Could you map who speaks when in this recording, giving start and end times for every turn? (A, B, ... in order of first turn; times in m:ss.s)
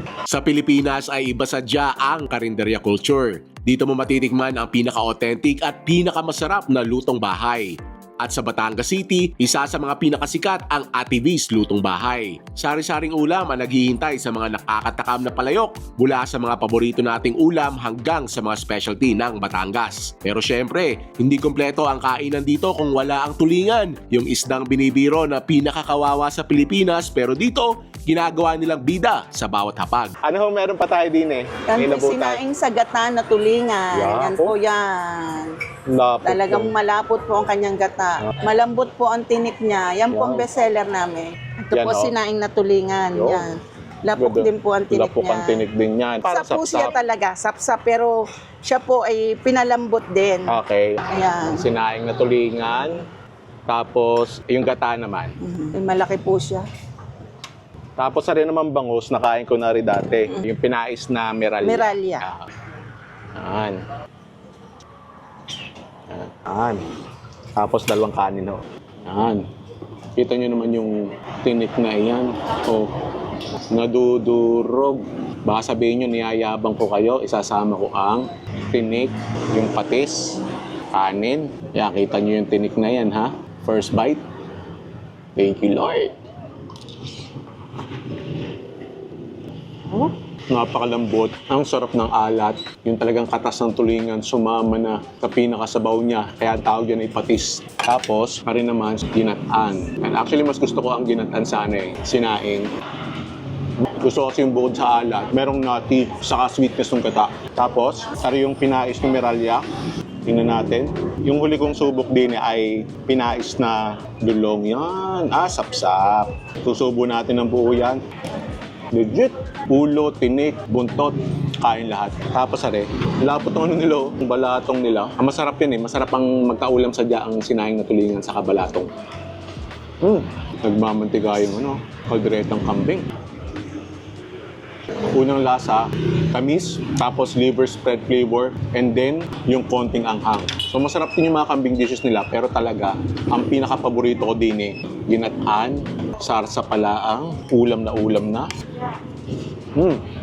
0:00.3-0:30.1 A
0:30.2-0:32.4 B
0:31.7-0:35.5 C
0:33.9-0:34.6 B
0:35.9-0:36.7 B
0:36.2-0:45.6 C
0:40.1-0:40.5 B
0:41.7-0:42.1 B
0:43.1-0:43.5 B
0:44.2-0:46.9 B
0:46.2-0:50.6 C
0:50.5-0:53.0 B
0:51.1-0:51.6 C
0:53.7-0:55.4 B
0:55.4-0:56.7 C
0:58.0-1:02.5 B
1:01.6-1:02.2 C
1:03.3-1:03.8 B
1:06.1-1:06.9 B
1:07.6-1:09.4 B
1:10.2-1:12.9 B
1:13.7-1:20.3 B
1:20.9-1:24.2 B
1:25.4-1:26.1 B
1:29.9-1:42.7 B
1:44.0-1:49.6 B
1:50.2-1:58.0 B
1:58.9-2:08.9 B
2:10.0-2:13.1 B
2:15.1-2:28.5 B
2:29.7-2:30.0 B